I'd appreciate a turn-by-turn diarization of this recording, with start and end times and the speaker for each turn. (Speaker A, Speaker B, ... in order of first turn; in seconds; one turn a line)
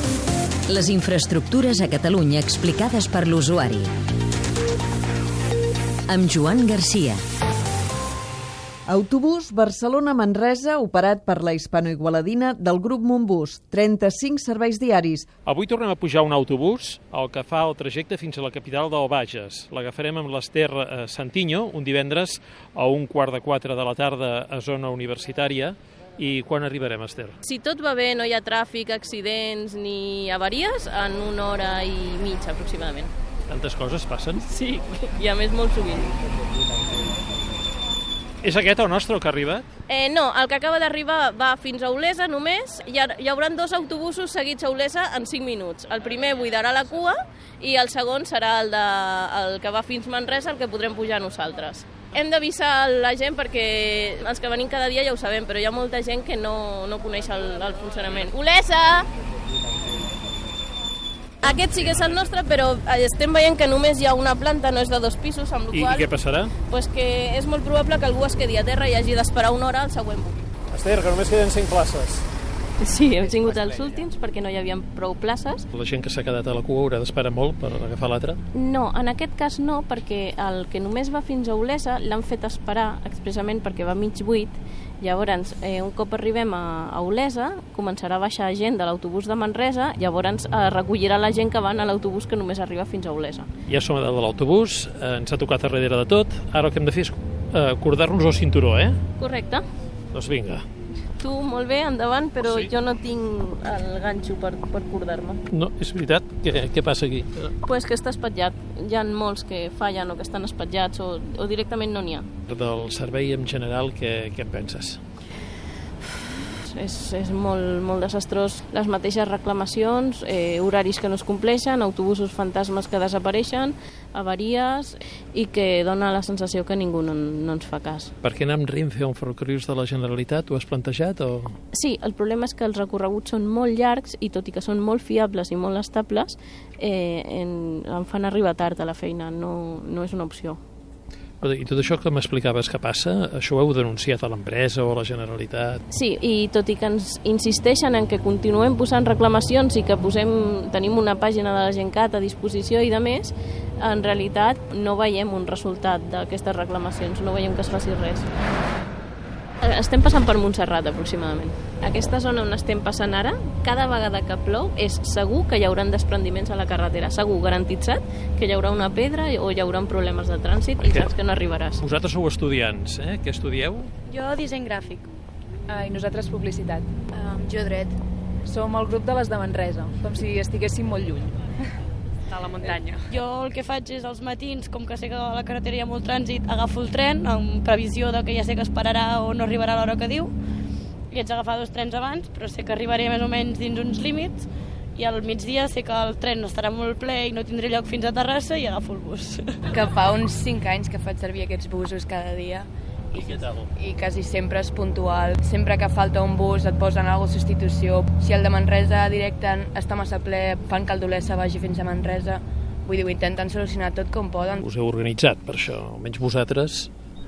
Speaker A: 0.7-3.9
Speaker A: 6.1-7.2
Speaker B: 8.9-15.3
Speaker C: 15.5-27.4
Speaker D: 27.4-33.1
Speaker C: 33.5-34.4
Speaker D: 34.4-36.1
Speaker C: 38.4-39.7
Speaker D: 39.9-59.1
Speaker D: 61.4-66.1
Speaker C: 65.7-66.5
Speaker D: 66.7-70.4
Speaker C: 70.7-72.3
Speaker D: 72.8-75.7
Speaker C: 75.7-78.4
Speaker D: 78.5-93.5
Speaker C: 93.7-99.0
Speaker D: 99.2-99.6
Speaker C: 100.1-100.7
Speaker D: 101.2-105.4
Speaker C: 102.4-102.7
Speaker C: 105.5-107.5
Speaker D: 107.6-112.3
Speaker C: 112.5-115.0
Speaker D: 116.2-128.1
Speaker C: 128.2-131.6
Speaker D: 131.7-140.6
Speaker C: 141.4-145.8
Speaker D: 145.9-158.3
Speaker D: 159.6-171.8
Speaker C: 170.8-171.1
Speaker C: 171.8-173.9
Speaker E: 174.1-175.1
Speaker F: 175.7-176.9
Speaker G: 177.2-177.9
Speaker F: 178.4-181.4
Speaker F: 182.6-183.0
Speaker E: 183.1-190.3
Speaker E: 191.1-194.4
Speaker E: 195.0-199.7
Speaker G: 199.7-214.6
Speaker C: 203.2-203.6
Speaker C: 214.6-216.9